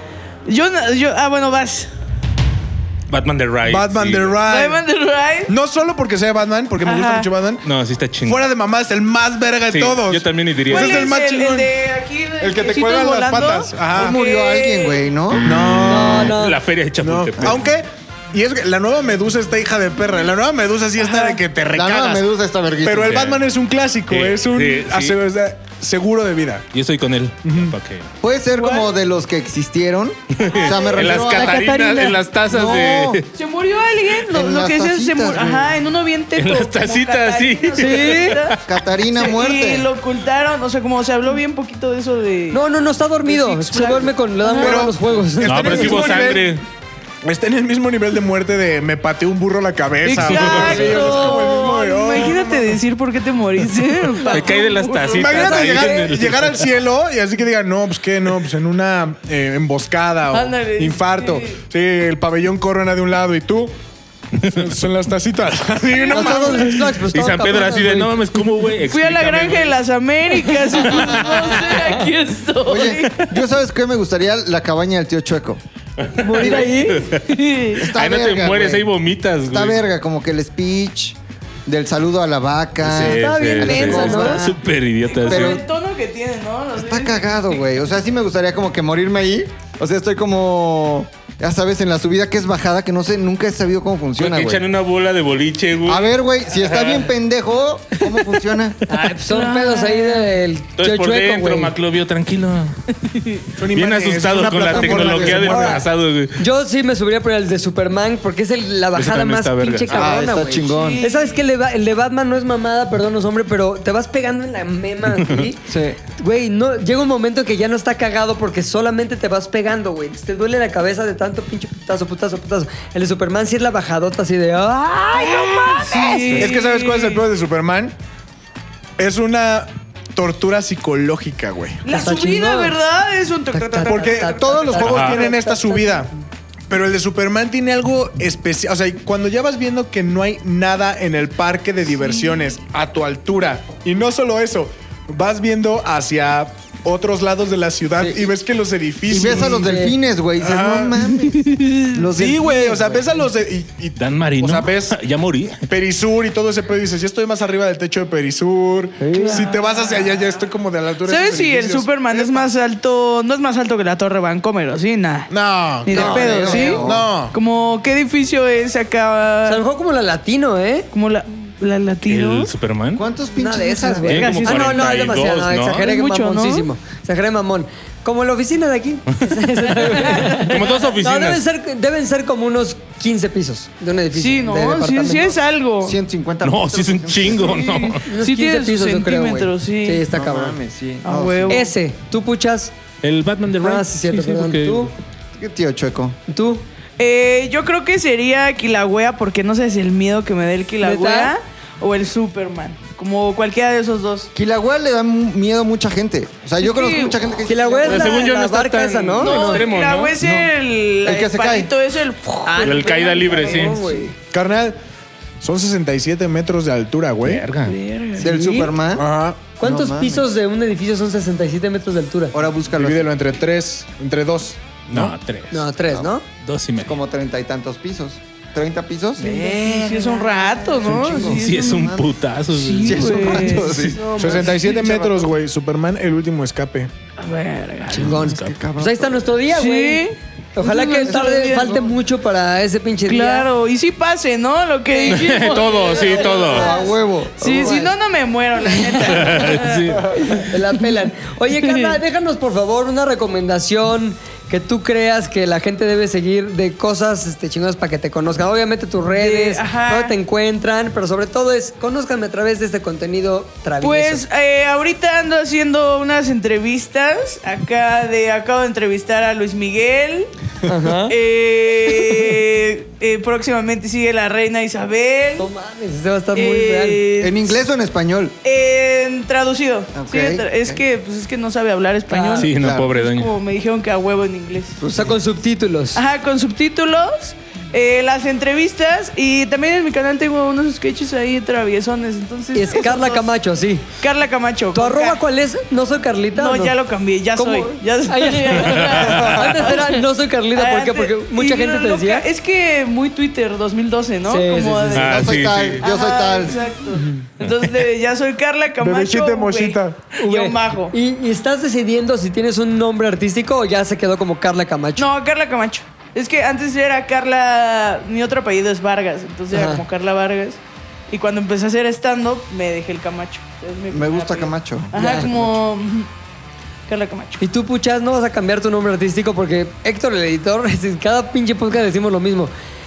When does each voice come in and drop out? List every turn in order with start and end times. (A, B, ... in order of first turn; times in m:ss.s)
0:00.5-0:01.9 A
0:03.1-0:04.4 B
0:03.7-0:04.8 C
0:04.5-0:05.5 A
0:05.5-0:07.6 C
0:06.8-0:07.3 A
0:07.6-0:08.4 B
0:08.2-0:11.7 C
0:09.7-0:11.1 B
0:10.7-0:15.1 A
0:12.4-0:14.2 C
0:13.9-0:15.8 D
0:15.3-0:17.7 B
0:15.4-0:16.4 C
0:15.8-0:16.6 E
0:17.0-0:22.3 C
0:21.0-0:21.4 A
0:21.7-0:23.3 D
0:22.8-0:26.7 C
0:23.0-0:23.4 B
0:24.1-0:25.2 B
0:26.7-0:28.1 B
0:27.4-0:27.8 C
0:28.2-0:31.8 D
0:28.5-0:28.9 A
0:30.3-0:33.3 B
0:30.4-0:31.5 A
0:31.5-0:32.2 E
0:32.5-0:33.2 D
0:33.4-0:38.6 A
0:34.3-0:35.8 D
0:36.4-0:38.6 B
0:37.7-0:38.4 E
0:38.7-0:39.9 D
0:39.1-0:42.6 A
0:42.5-0:46.3 E
0:43.2-0:44.9 A
0:44.6-0:46.6 C
0:45.4-0:46.6 B
0:47.2-0:52.8 C
0:50.0-0:56.0 A
0:50.1-0:51.2 B
0:50.7-0:51.2 E
0:54.2-0:56.6 B
0:55.2-1:03.7 C
1:00.3-1:01.6 A
1:04.4-1:04.7 B
1:04.4-1:07.0 C
1:05.8-1:06.8 A
1:06.1-1:08.4 E
1:06.2-1:06.7 D
1:07.1-1:09.8 B
1:08.9-1:13.2 A
1:10.3-1:12.0 B
1:12.6-1:15.6 D
1:16.0-1:17.2 B
1:16.2-1:17.1 E
1:16.4-1:16.7 D
1:17.2-1:17.9 A
1:17.8-1:19.8 B
1:17.8-1:18.9 D
1:19.5-1:24.6 D
1:22.8-1:25.6 B
1:23.0-1:24.5 E
1:25.0-1:27.6 A
1:25.3-1:25.6 D
1:26.8-1:34.6 D
1:34.2-1:37.1 B
1:35.9-1:38.8 D
1:38.9-1:41.7 E
1:39.3-1:40.3 A
1:40.8-1:42.8 B
1:43.0-1:43.5 A
1:43.6-1:45.8 C
1:43.7-1:46.4 B
1:44.7-2:06.5 E
1:44.8-1:45.5 D
1:49.0-1:50.0 B
1:49.9-1:51.0 D
1:50.6-1:51.4 A
1:55.7-1:56.0 D
2:05.2-2:07.9 C
2:05.8-2:07.2 A
2:09.0-2:11.8 C
2:11.8-2:14.8 A
2:11.9-2:12.8 E
2:13.5-2:16.1 E
2:13.8-2:16.1 C
2:14.8-2:15.2 B
2:16.7-2:29.8 C
2:28.0-2:28.3 D
2:29.1-2:33.0 D
2:29.3-2:30.0 E
2:30.4-2:31.0 C
2:31.2-2:32.0 A
2:32.1-2:35.0 C
2:34.0-2:35.6 B
2:35.7-2:42.5 C
2:39.0-2:39.5 E
2:39.2-2:40.4 A
2:41.0-2:45.3 A
2:45.3-2:47.4 C
2:45.8-2:49.6 A
2:45.9-2:47.1 D
2:46.0-2:46.8 E
2:49.4-2:50.9 E
2:50.9-2:52.5 A
2:52.1-2:53.0 B
2:53.0-2:54.3 D
2:53.4-3:05.4 E
2:54.1-2:55.8 B
2:54.2-2:54.9 A
2:55.7-2:56.7 A
2:59.8-3:01.0 A
3:00.0-3:01.4 B
3:04.1-3:06.0 A
3:05.8-3:07.8 D
3:06.4-3:08.0 B
3:07.4-3:10.0 A
3:08.1-3:10.6 E
3:10.1-3:11.7 D
3:11.0-3:11.7 A
3:11.5-3:12.7 E
3:13.0-3:14.9 B
3:13.6-3:14.9 E
3:15.4-3:16.2 D
3:16.3-3:16.6 E
3:17.0-3:24.3 A
3:20.8-3:21.3 E
3:24.4-3:28.1 D
3:26.6-3:28.3 A
3:27.5-3:29.7 E
3:27.9-3:30.2 B
3:29.2-3:33.8 A
3:30.2-3:30.5 D
3:31.0-3:31.7 D
3:32.4-3:34.1 E
3:32.6-3:33.8 B
3:34.3-3:34.8 C
3:35.4-3:37.5 C
3:37.2-3:37.8 B
3:37.6-3:38.8 A
3:38.2-3:39.0 D
3:38.9-3:39.4 C
3:39.6-3:42.4 E
3:39.6-3:40.2 D
3:42.3-3:43.1 D
3:42.8-3:45.2 C
3:44.9-3:45.7 B
3:45.5-3:46.2 E
3:45.9-3:46.2 D
3:46.4-3:47.0 B
3:46.8-3:49.6 D
3:49.2-3:51.3 E
3:49.2-3:51.9 A
3:50.1-3:52.2 D
3:51.2-3:54.0 B
3:52.5-3:53.7 A
3:52.8-3:54.8 D
3:53.7-3:55.2 E
3:54.1-3:56.9 C
3:57.2-3:58.2 A
3:57.9-4:03.5 E
3:58.0-3:58.5 B
3:58.2-3:59.3 D
3:59.5-4:01.9 A
4:03.1-4:10.6 A
4:04.9-4:05.3 E
4:05.1-4:06.7 B
4:06.3-4:07.9 D
4:07.4-4:07.9 E
4:09.0-4:10.1 B
4:10.3-4:24.2 E
4:11.6-4:12.0 A
4:19.1-4:20.1 A
4:23.8-4:30.3 A
4:30.6-4:31.2 E
4:30.9-4:35.5 A
4:35.4-4:37.0 E
4:36.3-4:37.5 A
4:37.2-4:38.4 D
4:38.4-4:44.8 A
4:40.0-4:40.8 D
4:42.1-4:42.5 E
4:42.4-4:43.3 B
4:42.6-4:42.9 D
4:44.8-4:45.2 D
4:44.9-4:46.0 E
4:46.0-4:53.3 A
4:52.5-4:53.9 E
4:54.0-4:55.2 A
4:54.7-4:56.8 E
4:56.4-5:10.9 A
4:57.3-5:02.3 E
4:58.6-4:59.3 B
5:04.3-5:05.2 E
5:04.9-5:05.8 B
5:05.1-5:06.7 D
5:06.9-5:07.2 E
5:07.4-5:07.8 B
5:08.8-5:10.1 C
5:10.2-5:15.1 E
5:15.0-5:26.1 A
5:19.5-5:19.8 E
5:23.9-5:25.5 D
5:24.9-5:25.3 E
5:26.9-5:27.4 A
5:27.4-5:32.5 E